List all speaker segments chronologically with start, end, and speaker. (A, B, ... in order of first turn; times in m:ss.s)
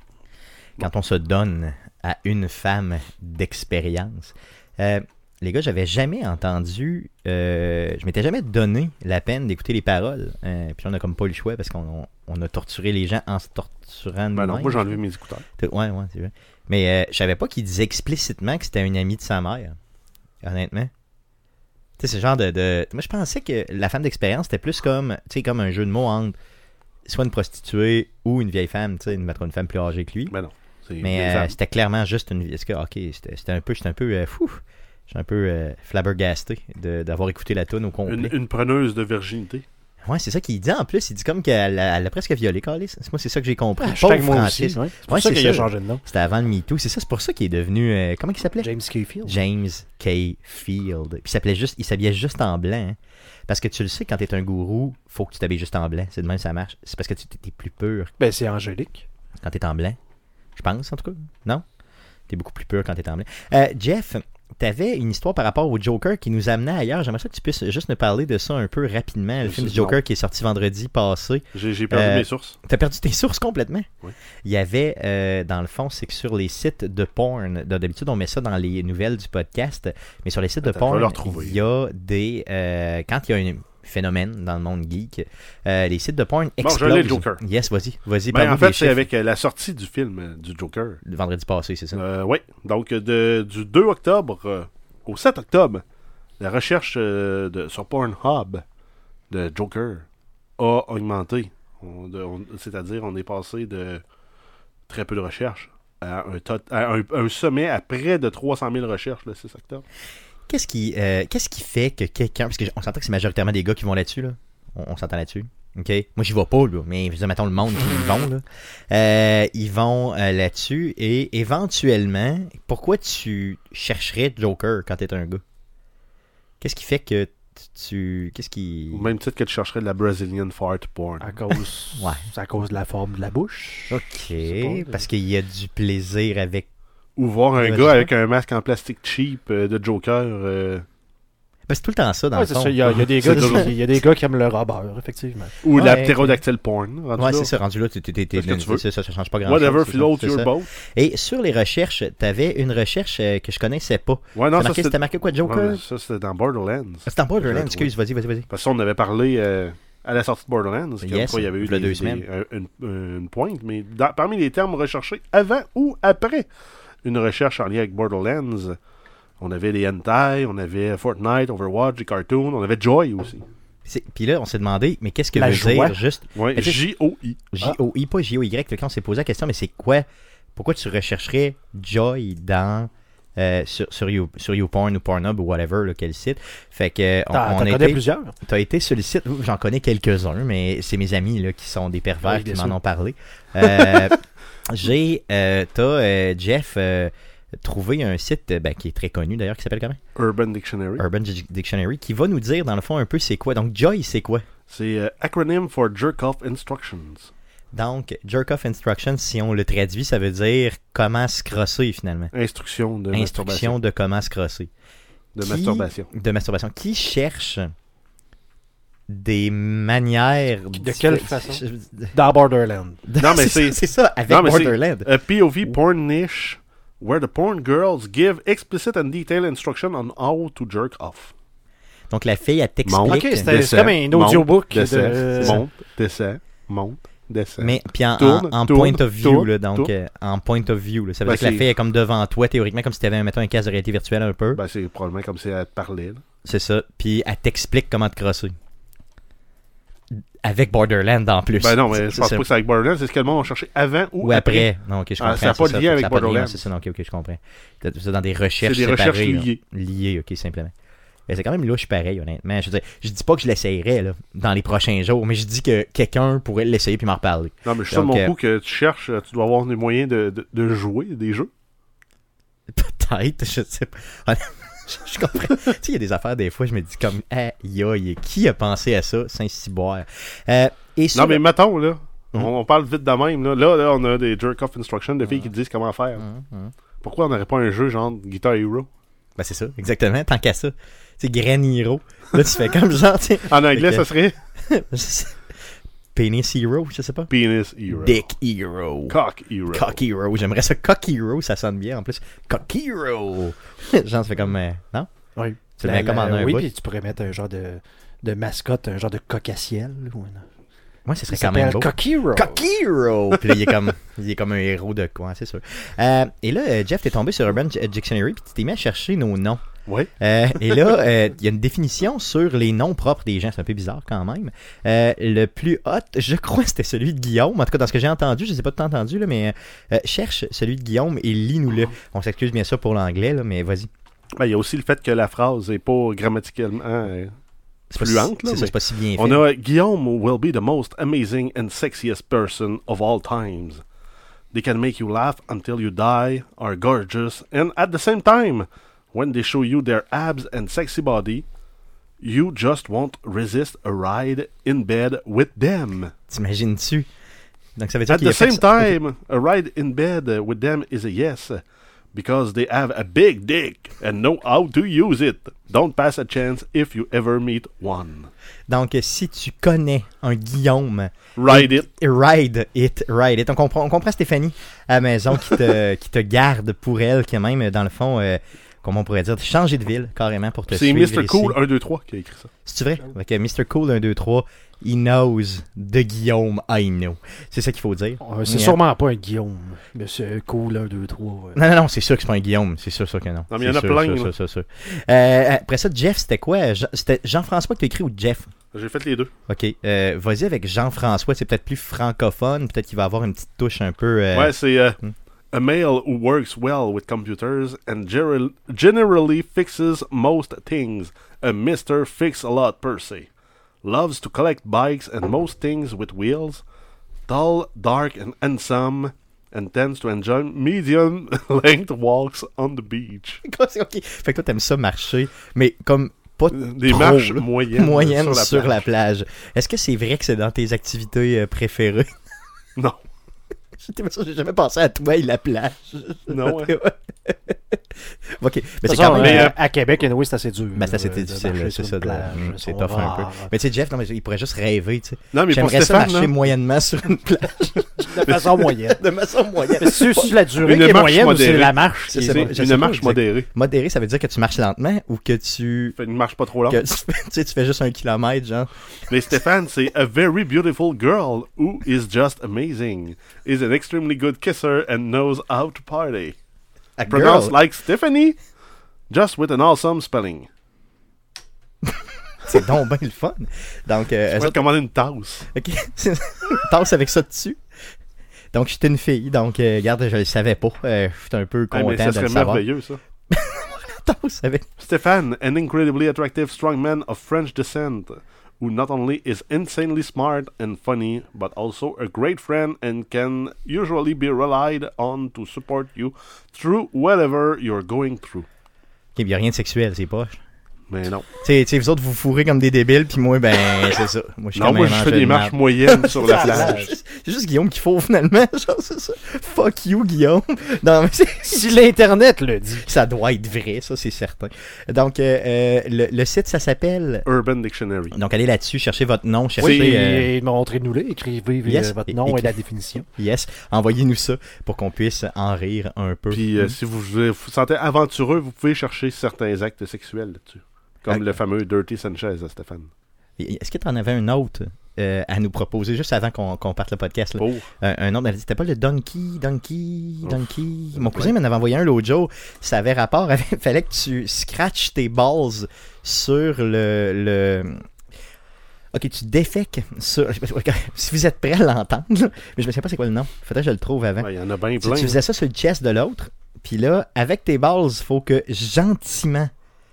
0:00.8-0:15.0 A
0:14.4-0:15.4 B
0:15.6-0:19.8 A
0:20.4-0:20.9 A
0:22.0-0:26.4 A
0:27.1-0:30.4 A
0:30.3-0:31.6 B
0:31.0-0:38.3 A
0:38.1-0:39.7 B
0:40.1-0:48.7 A
0:43.8-0:46.0 C
0:48.6-0:49.4 C
0:49.2-0:58.1 A
0:58.2-0:59.0 C
0:59.4-1:00.0 A
1:00.6-1:01.6 A
1:02.3-1:13.9 A
1:09.4-1:10.0 B
1:11.5-1:12.6 B
1:14.4-1:29.0 A
1:20.6-1:21.6 B
1:26.6-1:27.4 B
1:28.3-1:31.0 B
1:31.0-1:32.0 A
1:31.9-1:35.8 B
1:36.4-1:38.6 B
1:39.3-1:40.0 B
1:40.6-1:44.0 B
1:44.9-1:49.8 B
1:50.5-2:05.4 A
2:06.6-2:09.1 A
2:08.9-2:11.4 B
2:11.2-2:15.0 C
2:12.0-2:12.3 A
2:13.9-2:16.7 A
2:17.2-2:20.8 B
2:17.6-2:18.1 A
2:21.7-2:23.7 A
2:22.3-2:25.6 C
2:23.1-2:23.7 B
2:25.6-2:27.6 B
2:25.8-2:26.4 A
2:27.2-2:35.8 A
2:28.3-2:28.8 B
2:29.4-2:30.7 B
2:34.4-2:37.9 B
2:37.1-2:38.5 A
2:38.5-2:46.5 B
2:41.0-2:42.2 A
2:47.0-2:48.8 B
2:49.4-2:53.5 B
2:53.9-2:56.8 A
2:55.3-2:56.0 C
2:56.4-2:57.7 B
2:57.5-3:20.0 A
3:07.3-3:08.3 C
3:12.2-3:12.8 C
3:20.2-3:21.0 B
3:21.0-3:24.4 A
3:24.7-3:27.3 B
3:27.7-3:32.3 A
3:32.3-3:33.8 B
3:33.1-3:34.7 A
3:35.4-3:36.1 B
3:35.4-3:37.7 A
3:39.1-3:42.2 A
3:40.8-3:43.0 C
3:43.1-3:45.1 A
3:43.2-3:51.3 B
3:52.1-3:53.6 A
3:52.8-3:59.9 B
3:53.0-3:55.6 C
3:57.6-4:04.6 A
4:01.3-4:01.7 B
4:04.6-4:06.2 B
4:06.4-4:08.5 A
4:10.1-4:12.5 A
4:11.6-4:16.7 B
4:14.2-4:20.7 A
4:18.6-4:19.6 B
4:21.3-4:28.3 A
4:27.6-4:31.5 B
4:32.7-4:41.4 A
4:41.1-4:46.2 B
4:45.2-4:45.5 A
4:46.2-4:46.7 A
4:47.0-4:48.9 B
4:49.4-4:54.1 A
4:53.5-4:54.4 B
4:54.6-4:55.5 A
4:56.1-4:57.3 A
4:57.3-4:58.2 B
4:57.9-4:59.2 A
4:59.1-5:00.0 B
4:59.7-5:05.1 A
5:05.4-5:10.5 C
5:05.8-5:06.7 A
5:11.1-5:19.6 A
5:11.3-5:12.6 C
5:20.2-5:33.9 A
5:34.4-5:37.3 B
5:37.9-5:39.4 A
5:37.9-5:43.8 B
5:44.5-5:51.4 B
5:52.2-5:56.1 B
5:56.3-5:57.1 A
5:57.8-5:59.0 A
5:58.1-6:01.6 B
6:02.1-6:08.3 B
6:08.7-6:21.6 A
6:11.4-6:11.9 B
6:20.7-6:22.5 B
6:22.7-6:28.8 A
6:28.2-6:31.6 C
6:31.6-6:38.5 A
6:33.5-6:34.3 B
6:38.7-6:39.3 B
6:39.5-6:45.1 A
6:44.3-6:45.0 B
6:45.5-6:53.3 B
6:53.8-6:56.6 B
6:57.3-7:03.4 B
7:03.4-7:12.1 A
7:06.5-7:08.8 B
7:13.8-7:19.6 A
7:16.3-7:16.7 B
7:18.8-7:23.5 C
7:19.1-7:19.5 B
7:20.8-7:30.4 A
7:25.3-7:26.4 B
7:28.1-7:29.0 C
7:29.8-7:32.6 C
7:30.6-7:33.5 B
7:32.1-7:36.0 A
7:36.0-7:36.8 B
7:36.7-7:38.7 A
7:39.1-7:46.4 B
7:47.0-7:47.6 A
7:47.1-7:48.4 B
7:49.1-7:50.5 B
7:51.9-7:54.6 A
7:54.3-7:55.5 B
7:55.5-7:57.6 A
7:58.5-8:02.6 A
8:01.7-8:03.0 B
8:03.3-8:04.7 A
8:04.8-8:18.5 B
8:19.2-8:20.4 A
8:20.9-8:21.3 B
8:21.4-8:31.8 A
8:24.6-8:26.8 B
8:26.2-8:27.0 C
8:31.4-8:32.9 C
8:32.8-8:37.3 A
8:37.3-8:38.2 B
8:38.1-8:40.3 A
8:39.6-8:40.0 B
8:39.6-8:43.1 C
8:41.6-8:46.8 A
8:46.3-8:52.9 B
8:53.4-9:07.8 A
8:57.4-8:57.7 B
9:01.0-9:01.3 B
9:08.9-9:14.3 A
9:14.2-9:15.2 B
9:14.8-9:19.5 A